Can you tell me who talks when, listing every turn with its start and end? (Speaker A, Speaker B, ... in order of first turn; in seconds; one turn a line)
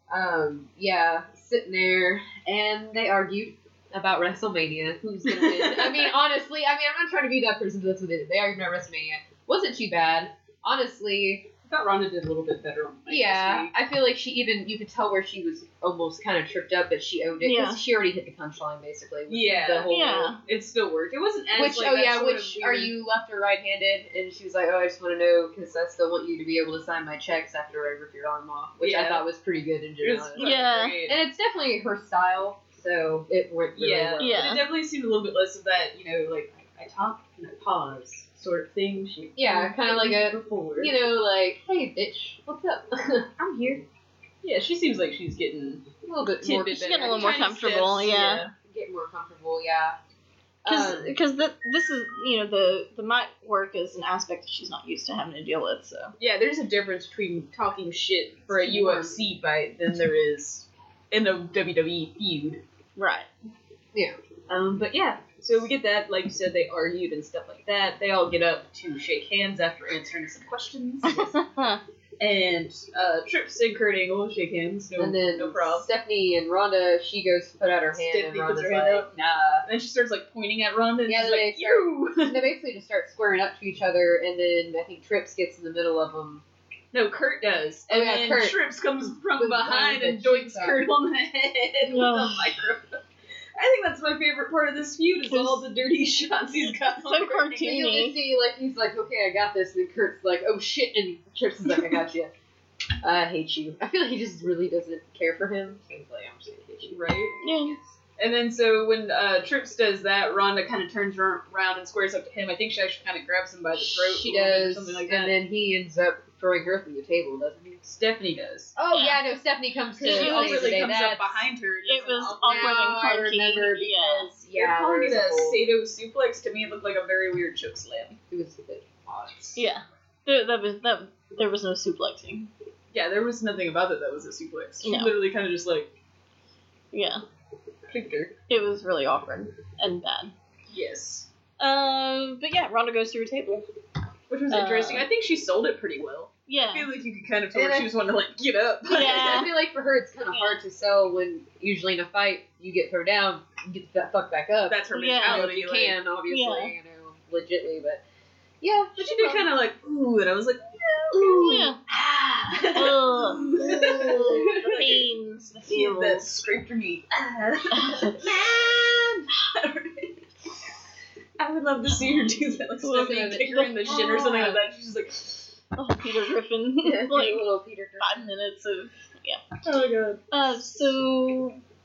Speaker A: 0.1-11.5
Speaker B: 5.3-6.1
Speaker B: 11.7-13.7
Speaker A: 13.1-20.4
Speaker C: 17.4-17.8
Speaker B: 19.3-22.9
Speaker C: 19.9-20.4
Speaker A: 21.5-34.6
Speaker B: 28.8-29.2
Speaker B: 30.0-31.2
Speaker C: 30.4-31.0
Speaker B: 33.8-40.9
Speaker C: 34.2-34.7
Speaker A: 39.4-43.3
Speaker B: 43.4-43.8
Speaker B: 44.4-45.9
Speaker A: 46.0-47.4
Speaker B: 46.4-48.5
Speaker C: 46.7-48.5
Speaker A: 48.6-50.0
Speaker A: 50.6-51.2
Speaker C: 50.7-56.1
Speaker B: 56.2-62.6
Speaker A: 58.5-59.2
Speaker C: 63.0-63.3
Speaker A: 63.9-64.2
Speaker B: 64.5-71.3
Speaker A: 71.1-71.4
Speaker C: 71.1-71.8
Speaker B: 72.2-75.9
Speaker A: 75.0-79.7
Speaker B: 77.9-79.1
Speaker B: 79.7-82.5
Speaker A: 81.1-86.4
Speaker B: 86.9-93.0
Speaker A: 87.9-88.6
Speaker A: 89.4-90.9
Speaker C: 91.9-92.5
Speaker B: 93.6-97.7
Speaker C: 95.3-95.7
Speaker C: 96.9-98.2
Speaker A: 97.6-102.3
Speaker A: 103.0-108.0
Speaker B: 106.9-107.4
Speaker C: 107.4-107.8
Speaker B: 108.2-115.3
Speaker A: 113.8-117.8
Speaker B: 117.8-118.8
Speaker A: 118.8-121.5
Speaker C: 118.9-119.2
Speaker B: 120.0-122.8
Speaker C: 120.0-120.8
Speaker C: 121.9-124.3
Speaker A: 122.4-125.6
Speaker B: 124.5-128.2
Speaker A: 128.3-129.7
Speaker C: 129.6-132.5
Speaker B: 132.9-135.9
Speaker C: 134.8-135.2
Speaker C: 136.9-137.2
Speaker B: 137.9-138.3
Speaker C: 138.5-140.3
Speaker B: 140.7-141.3
Speaker C: 141.6-143.7
Speaker B: 144.3-149.5
Speaker C: 144.5-145.1
Speaker C: 146.5-146.9
Speaker A: 147.5-147.9
Speaker C: 148.9-149.5
Speaker A: 148.9-158.0
Speaker C: 150.3-150.6
Speaker B: 154.7-156.0
Speaker C: 154.9-155.4
Speaker C: 156.3-156.7
Speaker A: 158.6-159.5
Speaker B: 159.0-165.1
Speaker A: 161.1-161.8
Speaker C: 161.2-161.8
Speaker A: 162.5-162.8
Speaker C: 162.7-166.4
Speaker A: 163.6-164.9
Speaker B: 165.6-170.2
Speaker B: 171.4-175.5
Speaker A: 172.6-174.6
Speaker C: 172.9-174.5
Speaker C: 175.8-177.4
Speaker A: 176.8-178.3
Speaker C: 178.0-179.6
Speaker B: 179.6-181.0
Speaker C: 180.3-181.6